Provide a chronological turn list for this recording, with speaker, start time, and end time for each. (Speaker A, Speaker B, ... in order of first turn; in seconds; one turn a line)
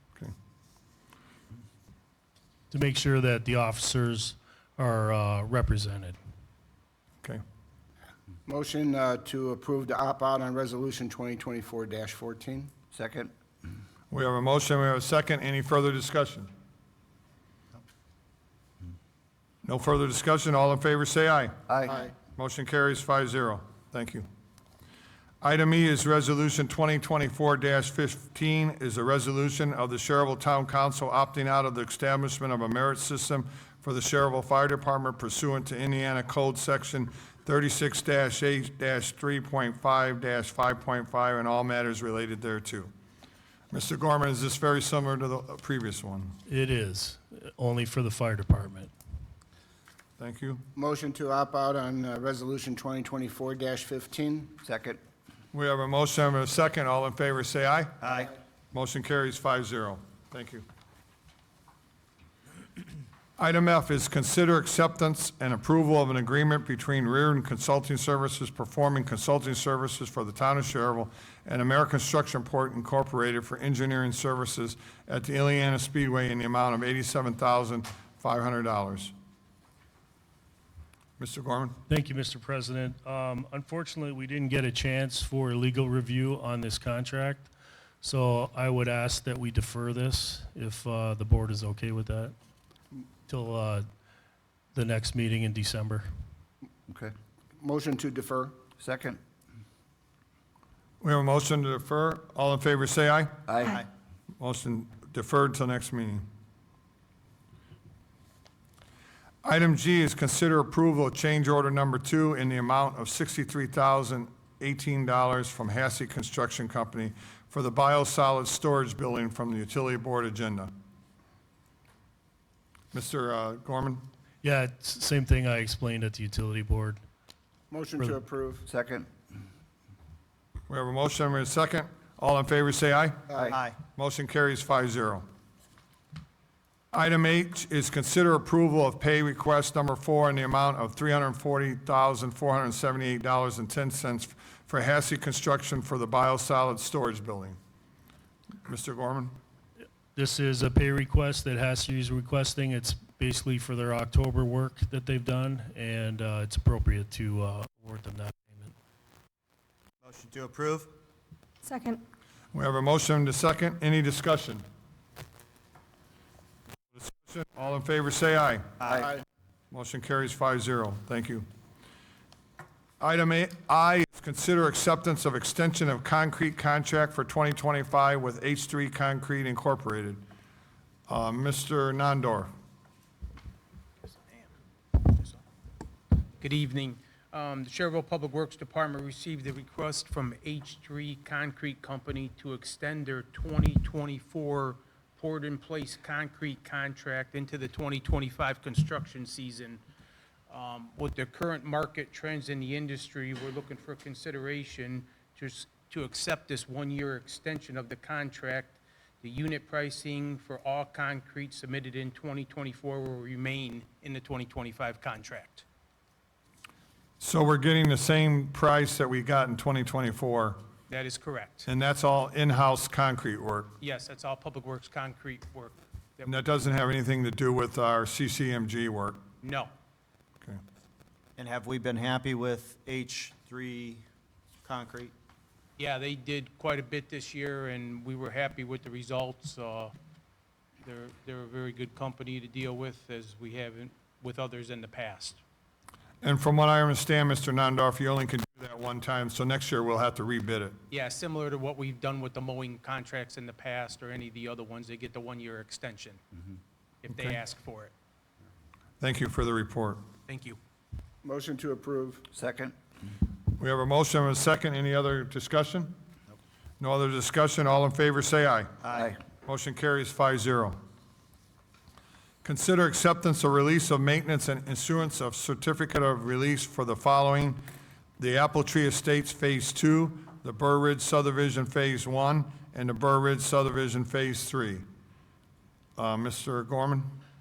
Speaker A: 2.7-6.2
Speaker B: 8.5-12.7
Speaker C: 12.9-13.3
Speaker D: 14.1-16.5
Speaker D: 19.6-21.6
Speaker C: 21.7-22.1
Speaker D: 22.4-24.3
Speaker D: 25.4-42.9
Speaker D: 43.7-46.4
Speaker A: 46.5-48.9
Speaker D: 50.2-50.6
Speaker B: 50.8-54.5
Speaker C: 54.6-55.0
Speaker D: 55.5-58.1
Speaker D: 58.7-60.6
Speaker D: 63.4-79.1
Speaker D: 81.2-81.8
Speaker A: 81.9-92.3
Speaker A: 93.3-93.9
Speaker A: 94.7-96.1
Speaker C: 96.9-97.1
Speaker B: 97.6-98.5
Speaker C: 98.8-99.2
Speaker D: 101.0-103.7
Speaker C: 103.5-103.8
Speaker D: 104.4-106.3
Speaker D: 109.4-120.7
Speaker D: 122.9-124.0
Speaker A: 124.4-127.0
Speaker B: 127.7-128.6
Speaker C: 128.7-129.1
Speaker D: 130.7-133.3
Speaker C: 133.4-133.7
Speaker D: 133.9-135.3
Speaker D: 136.9-147.6
Speaker D: 148.7-149.4
Speaker A: 150.2-158.7
Speaker E: 160.0-160.9
Speaker D: 162.5-164.6
Speaker D: 166.9-169.1
Speaker D: 169.7-171.5
Speaker D: 173.0-180.2
Speaker D: 181.1-182.5
Speaker F: 184.1-185.4
Speaker F: 186.4-199.8
Speaker F: 200.5-215.6
Speaker D: 217.2-220.6
Speaker F: 220.9-221.7
Speaker D: 221.7-223.8
Speaker F: 223.8-226.3
Speaker D: 226.3-229.2
Speaker F: 229.4-229.7
Speaker E: 231.4-234.0
Speaker E: 234.7-235.1
Speaker F: 235.8-239.9
Speaker F: 240.8-245.4
Speaker D: 246.2-250.8
Speaker F: 250.9-256.2
Speaker F: 257.0-257.9
Speaker D: 259.0-260.1
Speaker F: 260.3-260.6
Speaker B: 261.2-262.2
Speaker C: 262.3-262.8
Speaker D: 263.6-265.9
Speaker D: 266.8-268.8
Speaker C: 268.8-269.2
Speaker D: 269.4-270.8
Speaker D: 272.4-277.6
Speaker D: 278.2-284.9
Speaker D: 286.0-287.1